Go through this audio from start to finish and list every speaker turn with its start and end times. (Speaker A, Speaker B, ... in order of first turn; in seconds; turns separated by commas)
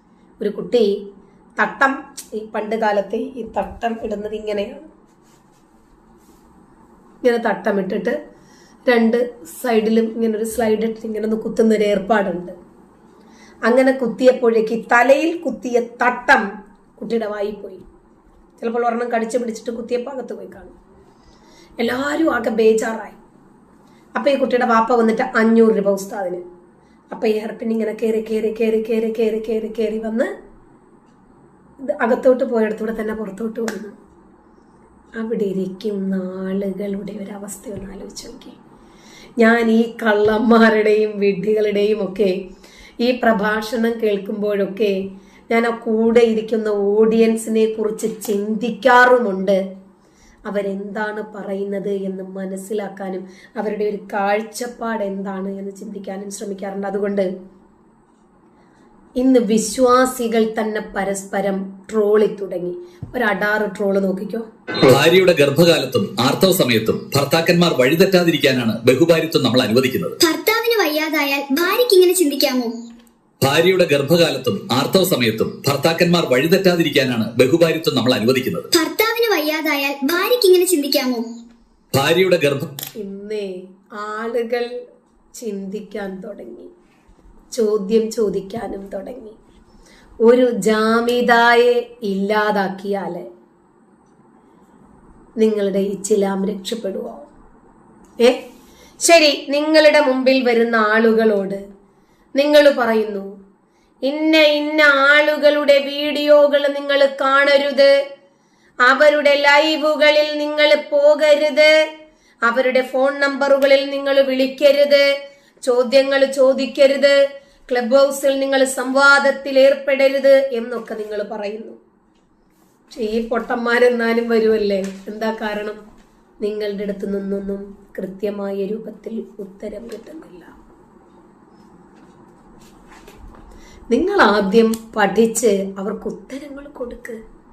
Speaker A: 0.4-0.9, Speaker A: 1.6-4.9, Speaker A: 7.2-8.2, Speaker A: 8.9-12.6, Speaker A: 13.7-16.4, Speaker A: 17.0-17.8, Speaker A: 18.6-20.7, Speaker A: 21.8-23.2, Speaker A: 24.2-26.4, Speaker A: 27.1-30.3, Speaker A: 31.9-34.0, Speaker A: 35.2-38.6, Speaker A: 39.4-42.3, Speaker A: 43.0-45.0, Speaker A: 45.5-49.6, Speaker A: 50.5-57.3, Speaker A: 59.2-64.5, Speaker B: 64.8-70.2, Speaker C: 70.2-72.7, Speaker B: 73.4-78.7, Speaker C: 78.7-81.2, Speaker B: 81.9-82.7, Speaker A: 83.0-84.7, Speaker A: 85.4-86.7, Speaker A: 87.5-89.4, Speaker A: 90.2-93.3, Speaker A: 95.4-97.3, Speaker A: 99.0-101.6, Speaker A: 102.4-103.3, Speaker A: 104.0-107.9, Speaker A: 108.9-111.7, Speaker A: 112.5-115.1, Speaker A: 115.7-117.2, Speaker A: 117.7-121.8, Speaker A: 122.9-125.8, Speaker A: 126.4-130.5, Speaker A: 133.9-137.2